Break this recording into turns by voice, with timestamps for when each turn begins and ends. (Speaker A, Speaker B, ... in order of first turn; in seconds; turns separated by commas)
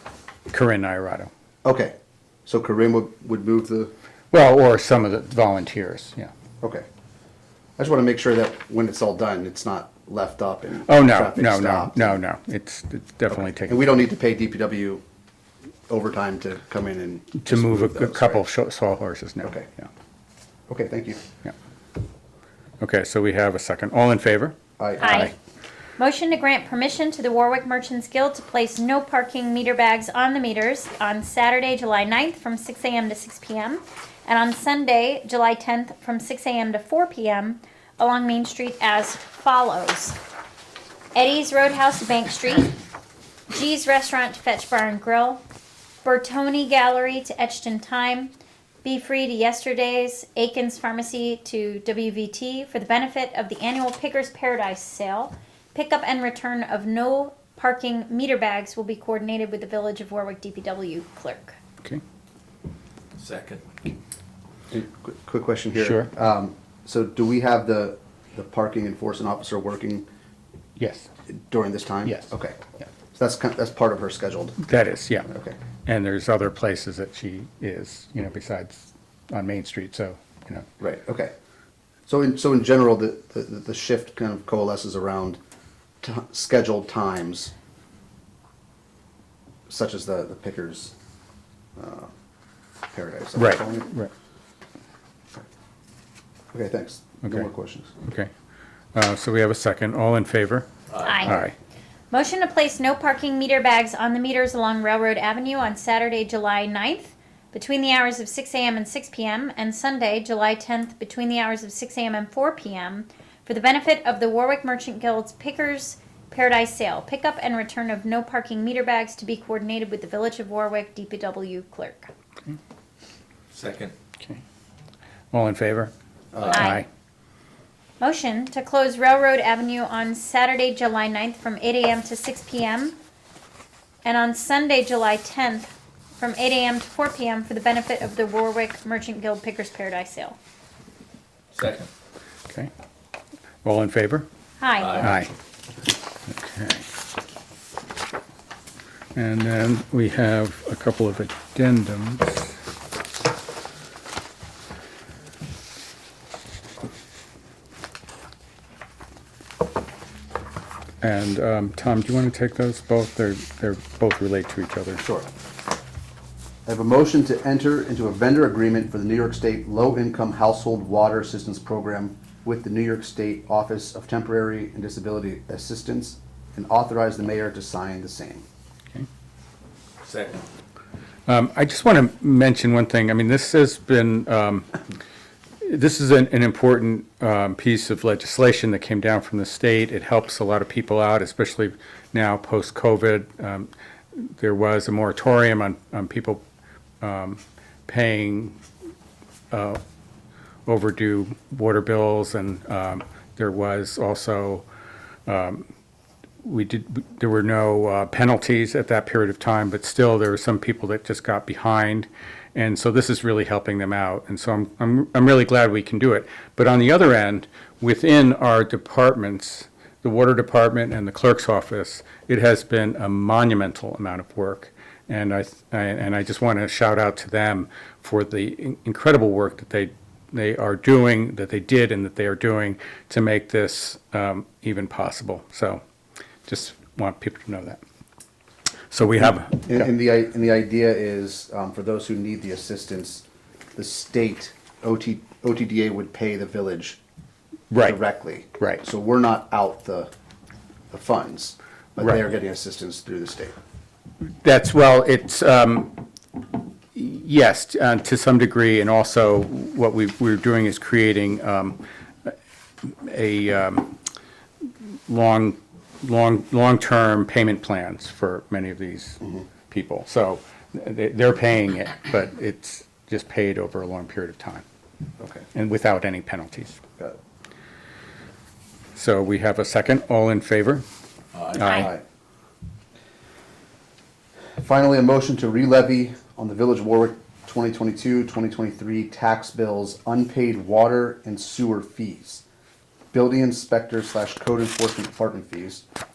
Speaker A: 0.5-1.3, Speaker B: 1.6-1.9, Speaker B: 2.5-3.9, Speaker A: 4.3-6.3, Speaker B: 6.6-6.8, Speaker B: 7.8-12.2, Speaker A: 10.8-13.8, Speaker B: 13.3-15.0, Speaker B: 15.9-18.4, Speaker A: 17.4-19.9, Speaker B: 19.4-19.7, Speaker B: 20.7-21.2, Speaker A: 22.8-25.3, Speaker B: 24.8-25.3, Speaker C: 25.0-25.3, Speaker C: 26.0-40.2, Speaker C: 41.1-42.7, Speaker C: 43.5-45.4, Speaker C: 46.0-61.6, Speaker D: 63.2-63.6, Speaker B: 64.7-70.0, Speaker A: 65.8-66.1, Speaker A: 70.8-71.1, Speaker B: 71.3-72.6, Speaker B: 73.1-74.6, Speaker A: 74.6-75.3, Speaker B: 75.3-75.6, Speaker A: 75.8-80.7, Speaker B: 80.8-81.3, Speaker B: 82.1-85.4, Speaker B: 86.0-87.5, Speaker B: 89.7-90.9, Speaker B: 91.8-92.1, Speaker B: 92.9-93.9, Speaker A: 93.3-94.1, Speaker B: 96.5-97.9, Speaker A: 98.0-98.3, Speaker A: 98.9-100.7, Speaker C: 101.0-101.5, Speaker A: 101.2-101.5, Speaker C: 102.1-122.1, Speaker D: 123.5-123.9, Speaker A: 125.3-125.9, Speaker B: 126.3-126.6, Speaker C: 126.5-126.8, Speaker A: 126.5-126.8, Speaker C: 128.0-132.9, Speaker C: 134.0-140.3, Speaker D: 141.5-141.9, Speaker A: 143.6-144.3, Speaker C: 144.6-145.1, Speaker A: 145.0-145.3, Speaker A: 146.3-146.8, Speaker A: 149.1-152.5, Speaker A: 161.0-165.0, Speaker B: 165.0-165.3, Speaker B: 166.7-178.4, Speaker D: 180.0-180.4, Speaker A: 181.3-184.7, Speaker A: 185.6-196.4, Speaker A: 197.0-198.6, Speaker A: 199.5-199.8, Speaker A: 200.7-204.6, Speaker A: 205.3-205.7, Speaker A: 206.4-235.8, Speaker A: 236.5-237.8, Speaker A: 238.9-239.9, Speaker B: 239.2-247.0, Speaker A: 247.7-248.0, Speaker B: 247.8-250.1, Speaker B: 250.9-253.5, Speaker A: 254.4-256.0, Speaker A: 256.9-262.3, Speaker A: 262.9-263.9, Speaker A: 265.1-274.6, Speaker B: 275.2-275.4, Speaker A: 275.5-276.8, Speaker A: 278.9-280.8, Speaker D: 281.3-281.8, Speaker A: 281.5-281.9, Speaker B: 281.6-282.0, Speaker B: 284.6-292.4, Speaker B: 293.1-295.8